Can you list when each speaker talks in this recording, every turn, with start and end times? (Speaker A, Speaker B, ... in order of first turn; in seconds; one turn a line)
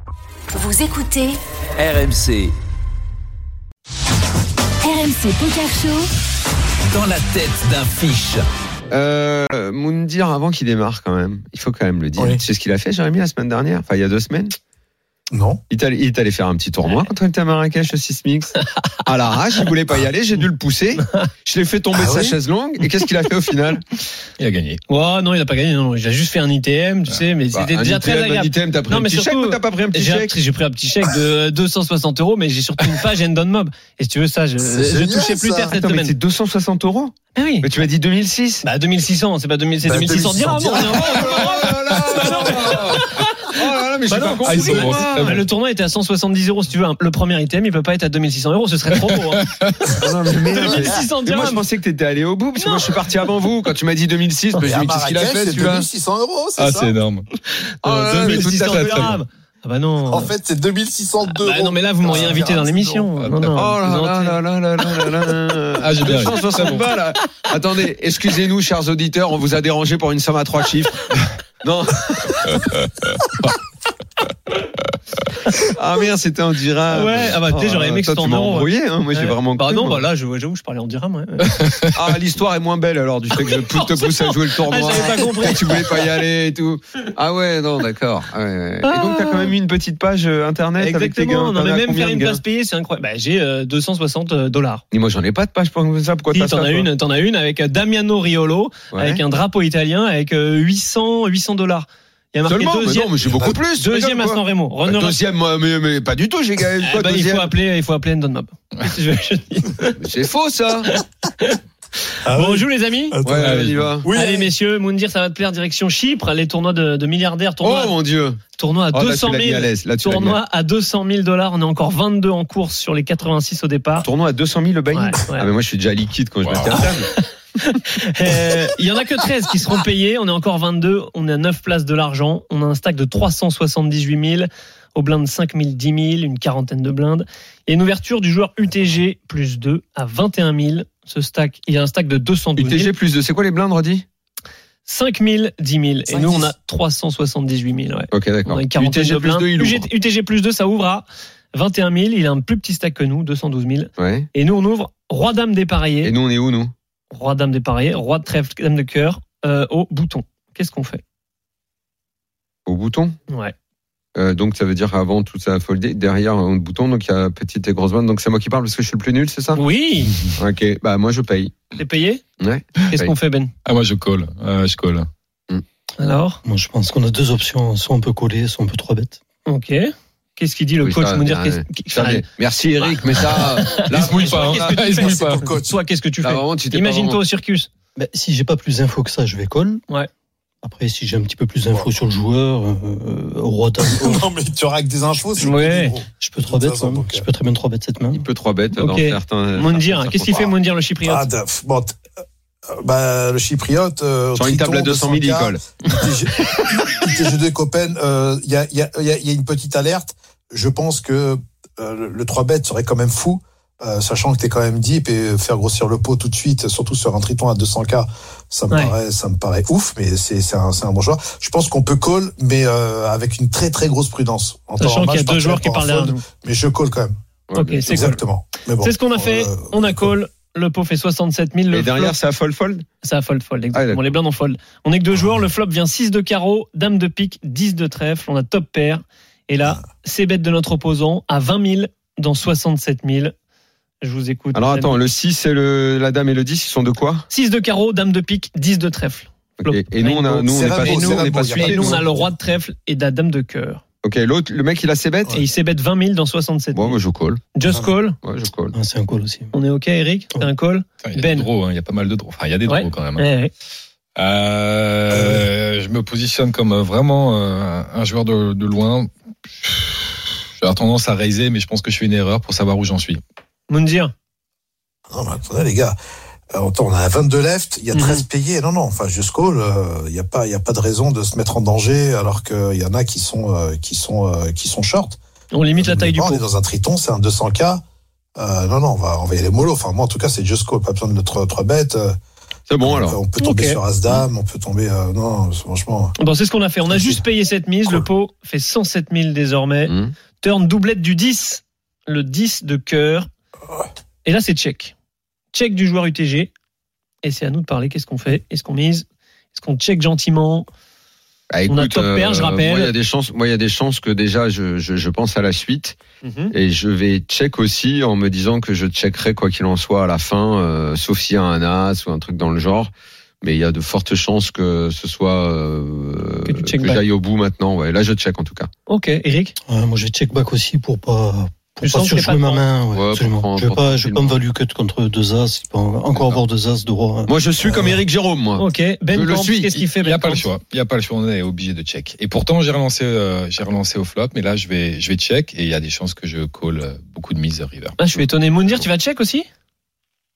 Speaker A: 0.5-1.4
Speaker B: 1.8-2.5
Speaker A: 4.8-6.1
Speaker B: 6.9-8.4
Speaker C: 8.9-14.6
Speaker D: 12.2-12.4
Speaker D: 15.3-15.6
Speaker C: 15.7-23.8
Speaker D: 21.9-22.3
Speaker E: 24.4-24.8
Speaker F: 24.9-36.1
Speaker C: 27.5-30.3
Speaker D: 34.6-35.8
Speaker C: 34.9-35.2
Speaker C: 35.8-38.6
Speaker F: 37.3-37.7
Speaker F: 38.6-43.4
Speaker D: 39.8-41.5
Speaker C: 40.7-45.4
Speaker D: 42.2-42.5
Speaker F: 44.1-49.5
Speaker E: 44.4-45.4
Speaker E: 49.6-50.0
Speaker C: 50.0-55.9
Speaker F: 50.5-51.6
Speaker D: 50.6-50.9
Speaker F: 52.6-53.0
Speaker D: 54.6-56.9
Speaker E: 56.6-57.2
Speaker C: 57.8-59.2
Speaker D: 57.9-58.3
Speaker F: 58.0-60.3
Speaker E: 58.3-59.2
Speaker D: 60.1-63.1
Speaker F: 61.3-64.4
Speaker E: 63.2-63.6
Speaker C: 63.5-71.0
Speaker E: 65.8-66.9
Speaker C: 71.6-72.5
Speaker C: 75.7-80.0
Speaker F: 76.9-81.5
Speaker E: 81.4-82.0
Speaker C: 81.9-92.4
Speaker F: 83.7-86.0
Speaker F: 88.8-89.5
Speaker F: 90.8-94.8
Speaker C: 94.9-96.9
Speaker F: 96.3-103.2
Speaker C: 98.9-99.2
Speaker C: 102.4-107.5
Speaker D: 103.3-103.5
Speaker F: 103.7-105.2
Speaker F: 106.8-110.0
Speaker C: 110.0-110.9
Speaker F: 110.8-111.6
Speaker D: 112.2-114.5
Speaker F: 112.3-113.2
Speaker C: 113.2-114.1
Speaker E: 113.3-113.9
Speaker F: 114.1-118.0
Speaker C: 117.6-118.4
Speaker F: 118.5-124.1
Speaker C: 118.9-120.4
Speaker C: 124.0-127.1
Speaker F: 124.9-125.5
Speaker E: 126.4-126.8
Speaker F: 127.6-142.9
Speaker C: 142.6-144.0
Speaker F: 144.8-156.1
Speaker C: 146.1-146.5
Speaker C: 148.1-149.9
Speaker C: 154.0-154.3
Speaker C: 156.0-156.7
Speaker F: 157.1-161.0
Speaker C: 162.7-163.1
Speaker F: 163.3-163.5
Speaker C: 164.1-169.6
Speaker F: 169.5-170.2
Speaker C: 170.4-171.8
Speaker F: 171.8-172.2
Speaker C: 172.4-173.1
Speaker F: 172.9-173.5
Speaker E: 173.6-175.1
Speaker F: 176.0-176.4
Speaker G: 176.4-179.2
Speaker F: 179.4-182.2
Speaker C: 180.8-184.9
Speaker F: 182.8-187.7
Speaker E: 183.8-185.6
Speaker D: 184.9-185.7
Speaker C: 186.2-187.2
Speaker G: 188.0-189.8
Speaker G: 190.6-194.2
Speaker D: 193.8-197.2
Speaker F: 195.4-196.0
Speaker G: 196.2-198.2
Speaker C: 198.1-200.2
Speaker F: 198.8-201.3
Speaker D: 200.2-200.5
Speaker D: 201.0-201.9
Speaker D: 202.7-227.1
Speaker C: 204.3-205.6
Speaker F: 224.8-226.2
Speaker C: 227.5-228.1
Speaker F: 227.5-228.2
Speaker D: 227.8-230.1
Speaker F: 228.8-232.2
Speaker C: 231.7-232.8
Speaker F: 233.0-243.3
Speaker C: 233.7-234.0
Speaker F: 244.0-245.0
Speaker C: 244.5-247.3
Speaker F: 247.3-253.8
Speaker C: 249.6-252.3
Speaker D: 250.4-252.0
Speaker C: 254.0-255.4
Speaker F: 255.3-257.0
Speaker C: 256.7-257.4
Speaker F: 257.5-258.2
Speaker C: 258.2-258.7
Speaker G: 258.7-259.5
Speaker F: 259.5-261.5
Speaker E: 261.0-263.2
Speaker F: 262.6-263.5
Speaker E: 264.2-273.2
Speaker D: 265.1-265.4
Speaker F: 273.7-274.1
Speaker D: 275.1-275.9
Speaker D: 276.5-285.2
Speaker F: 277.9-278.2
Speaker F: 285.5-286.4
Speaker D: 285.7-287.8
Speaker D: 288.4-292.1
Speaker C: 292.7-293.2
Speaker D: 292.8-296.1
Speaker F: 293.4-293.8
Speaker F: 296.2-303.3
Speaker D: 296.9-297.2
Speaker C: 299.9-300.1
Speaker F: 304.2-304.9
Speaker F: 305.5-306.5
Speaker F: 307.2-310.7
Speaker C: 311.5-316.0
Speaker F: 311.7-312.9
Speaker F: 316.2-316.5
Speaker C: 316.5-328.7
Speaker F: 326.4-327.0
Speaker F: 328.9-329.6
Speaker G: 329.7-338.0
Speaker F: 331.8-332.6
Speaker C: 332.9-334.4
Speaker C: 337.3-339.8
Speaker F: 338.6-340.5
Speaker E: 339.9-347.9
Speaker F: 348.0-349.4